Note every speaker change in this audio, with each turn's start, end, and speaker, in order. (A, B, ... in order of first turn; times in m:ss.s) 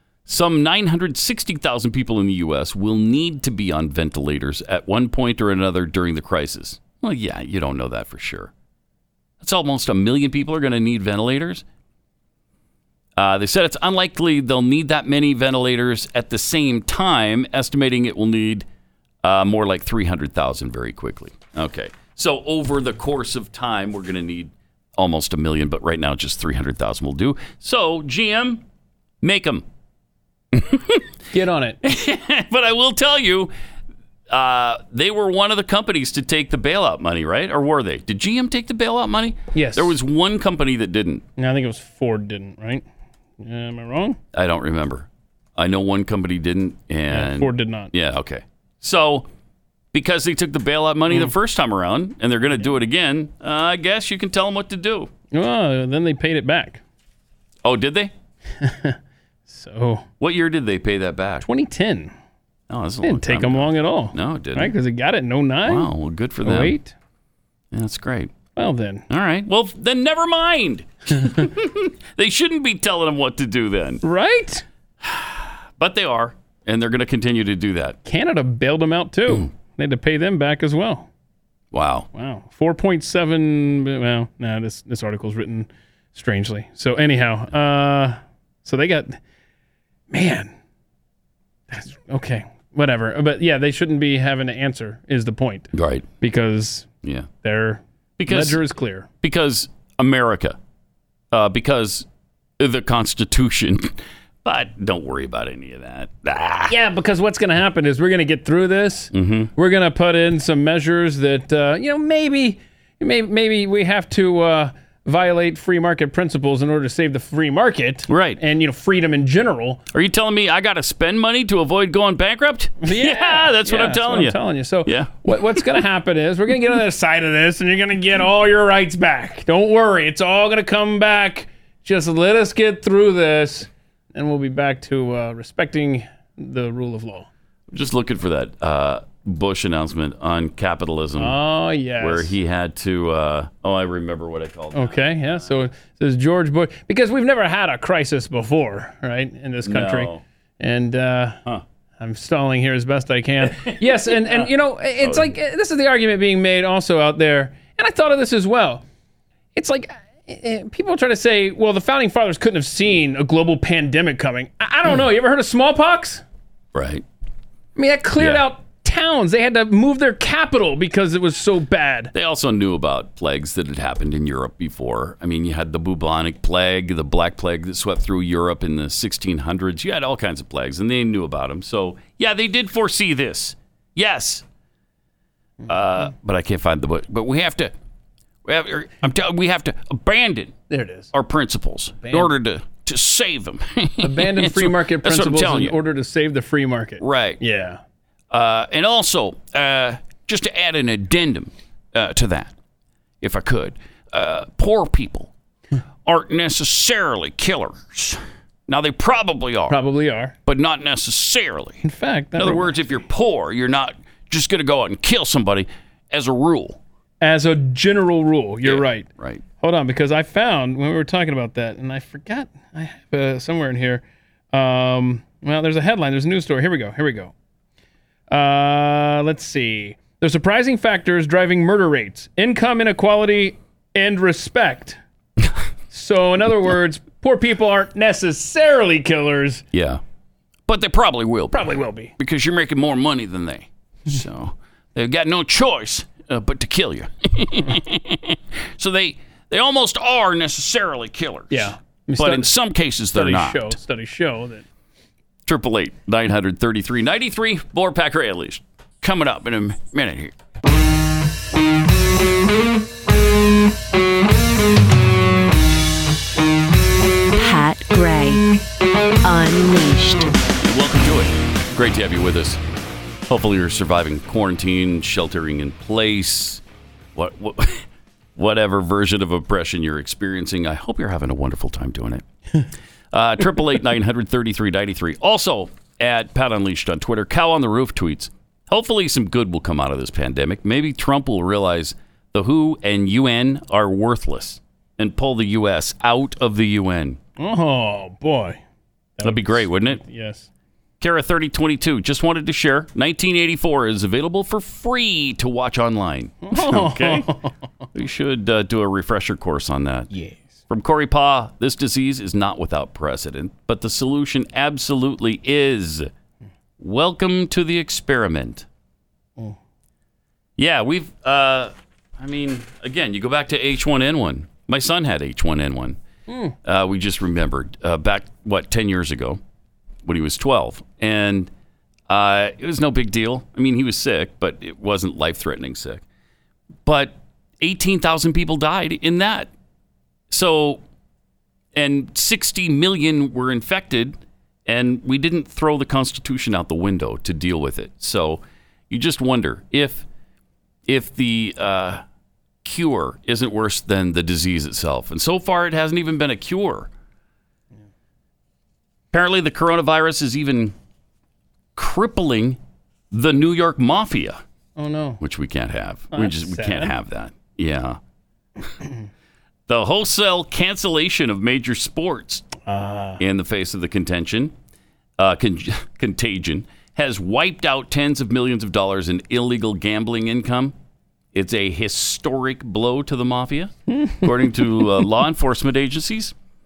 0:00.3-0:08.5 A
0:09.4-0:11.6 A
0:13.2-0:18.6 A
0:19.2-0:28.6 A
0:29.2-0:29.6 A
0:30.5-0:31.1 A
0:31.3-0:31.8 B
0:31.8-0:33.5 A
0:34.3-0:41.2 A
0:39.5-0:40.0 B
0:41.4-0:42.8 B
0:43.4-0:44.2 B
0:44.3-0:49.3 A
0:47.1-0:47.9 B
0:49.9-0:55.1 A
0:55.3-0:56.8 B
0:57.6-0:58.1 A
0:58.6-0:59.0 B
0:59.5-1:00.0 B
1:00.2-1:01.4 A
1:01.4-1:02.1 B
1:02.7-1:04.7 A
1:03.0-1:05.9 B
1:05.6-1:06.8 A
1:06.4-1:06.9 B
1:07.7-1:08.3 A
1:08.6-1:09.0 B
1:09.1-1:14.0 A
1:14.0-1:14.6 B
1:15.0-1:18.0 A
1:18.0-1:21.1 B
1:21.7-1:22.1 A
1:22.1-1:29.2 B
1:30.1-1:30.5 B
1:31.7-1:35.7 B
1:35.7-1:36.1 A
1:36.2-1:36.9 B
1:37.0-1:37.3 A
1:37.4-1:39.1 B
1:38.2-1:38.6 A
1:39.2-1:40.6 A
1:41.3-1:42.1 A
1:42.6-1:46.7 A
1:46.7-1:59.8 B
1:49.1-1:49.5 A
1:58.1-1:58.4 A
1:59.9-2:05.6 A
2:02.8-2:17.3 B
2:17.7-2:21.4 A
2:21.2-2:22.3 B
2:22.0-2:25.5 A
2:24.7-2:31.4 B
2:29.6-2:30.2 A
2:32.0-2:38.8 B
2:33.4-2:35.3 A
2:39.6-2:46.2 B
2:46.7-2:47.0 A
2:47.8-2:52.1 B
2:48.2-2:48.4 A
2:52.1-3:04.4 A
3:05.7-3:07.7 A
3:08.4-3:10.5 A
3:10.7-3:11.1 B
3:11.1-3:15.8 A
3:12.0-3:12.3 B
3:14.0-3:17.8 B
3:17.0-3:17.4 A
3:18.3-3:22.5 A
3:23.2-3:25.3 A
3:26.0-3:29.8 A
3:29.7-3:30.3 B
3:30.4-3:31.8 A
3:31.8-3:32.8 B
3:32.3-3:36.8 A
3:37.2-3:39.1 B
3:38.6-3:39.4 A
3:39.6-3:47.3 B
3:48.3-3:55.0 B
3:55.9-3:59.6 B
3:59.7-4:00.0 A
4:00.6-4:13.8 A
4:01.5-4:02.1 B
4:11.5-4:12.5 B
4:13.1-4:14.6 B
4:15.4-4:20.3 A
4:27.3-4:28.5 C
4:29.2-4:30.4 C
4:30.6-4:32.6 A
4:33.3-4:36.6 A
4:37.1-4:42.2 A
4:43.1-4:57.2 A
4:57.4-4:58.6 B
4:59.2-5:00.5 B
4:59.2-5:00.0 A
5:01.0-5:07.3 A
5:06.4-5:07.5 B
5:07.9-5:10.1 A
5:10.1-5:10.5 B
5:10.7-5:16.1 A
5:16.8-5:18.6 A
5:20.6-5:26.0 A
5:26.3-5:26.6 B
5:26.6-5:29.4 A
5:30.0-5:31.5 A
5:32.1-5:36.0 A
5:36.8-5:39.5 A
5:40.3-5:40.8 A
5:41.7-5:50.0 A
5:50.8-5:52.0 A
5:52.6-5:56.9 A
5:59.1-6:00.7 A
6:01.8-6:02.6 A
6:03.1-6:04.4 A
6:04.8-6:05.2 B
6:05.2-6:08.0 A
6:06.1-6:06.9 B
6:09.7-6:12.5 A
6:12.6-6:13.2 B
6:13.2-6:14.5 A
6:15.2-6:20.7 A
6:21.3-6:26.3 A
6:23.9-6:24.3 B